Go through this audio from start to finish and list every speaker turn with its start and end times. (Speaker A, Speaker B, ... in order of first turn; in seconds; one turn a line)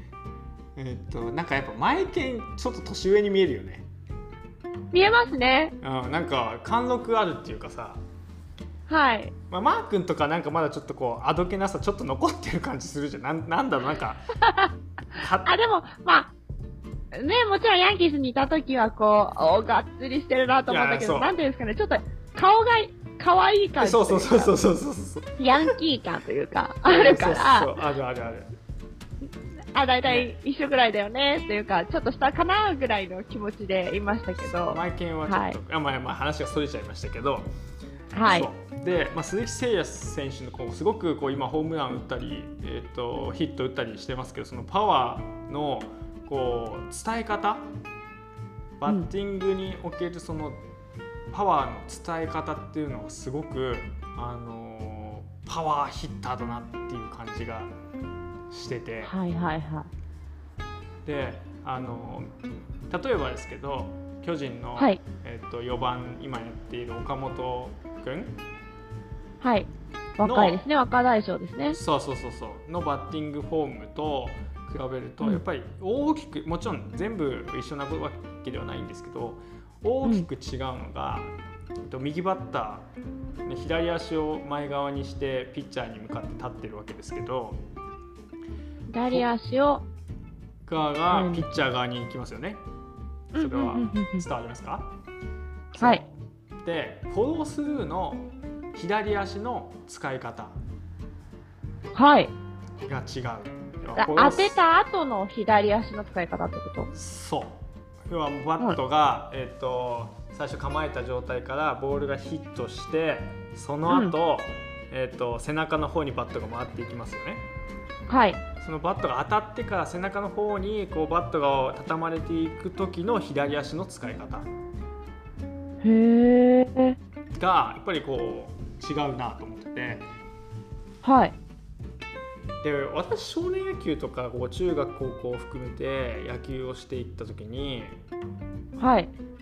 Speaker A: 0.8-3.9
Speaker B: 4.9-5.7
Speaker A: 5.8-8.0
Speaker B: 8.9-9.3
Speaker A: 9.5-14.2
Speaker B: 14.4-14.7
Speaker A: 15.2-15.5
Speaker B: 15.4-16.3
Speaker B: 17.1-24.5
Speaker A: 20.7-21.4
Speaker A: 23.8-25.7
Speaker B: 25.4-27.8
Speaker A: 26.9-28.5
Speaker B: 29.7-35.6
Speaker A: 34.4-37.5
Speaker B: 38.1-38.5
Speaker A: 38.2-47.7
Speaker A: 48.8-50.6
Speaker A: 51.3-57.7
Speaker A: 58.5-59.1
Speaker B: 59.0-59.9
Speaker A: 61.0-62.3
Speaker A: 62.9-68.4
Speaker B: 69.4-71.8
Speaker A: 70.2-70.6
Speaker A: 71.7-82.9
Speaker B: 80.0-80.3
Speaker A: 83.5-87.6
Speaker B: 88.9-89.9
Speaker A: 90.6-92.6
Speaker B: 91.1-91.5
Speaker B: 93.3-94.3
Speaker A: 93.4-94.9
Speaker A: 95.7-96.1
Speaker B: 95.8-96.0
Speaker A: 96.6-100.6
Speaker B: 101.9-102.3
Speaker A: 102.9-104.6
Speaker B: 104.0-106.9
Speaker A: 106.9-117.5
Speaker B: 113.9-114.1
Speaker B: 118.1-118.4
Speaker A: 118.6-124.5
Speaker B: 125.8-127.0
Speaker A: 127.3-130.1
Speaker B: 131.0-131.3
Speaker A: 132.6-138.0
Speaker B: 138.8-139.1